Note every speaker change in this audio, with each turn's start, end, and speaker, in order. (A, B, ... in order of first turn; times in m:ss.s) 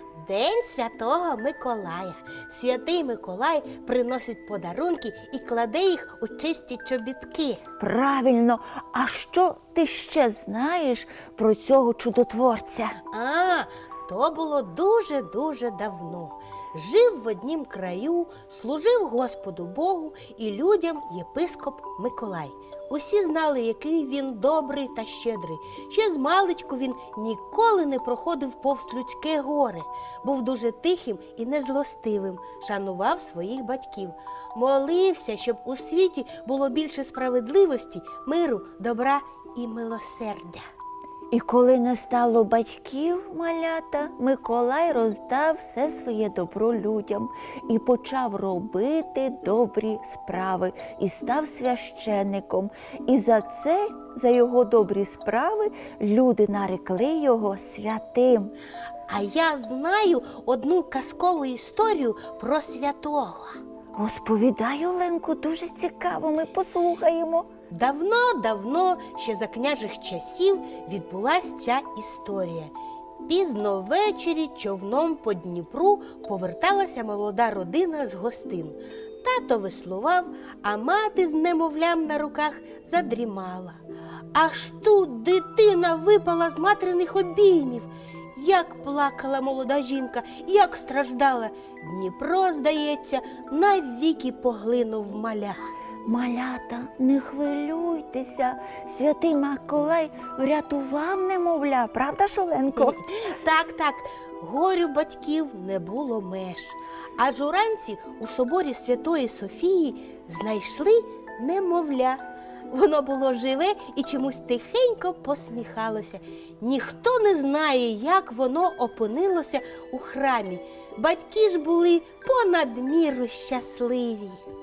0:00.2-0:07.6 A
0:07.8-0:13.0 B
0:13.1-0:40.6 A
0:41.3-0:58.5 B
0:59.1-1:03.6 A
1:04.0-1:07.5 B
1:07.7-1:12.7 A
1:13.3-1:23.8 A
1:24.3-1:35.6 A
1:36.1-1:43.0 B
1:43.0-2:04.4 A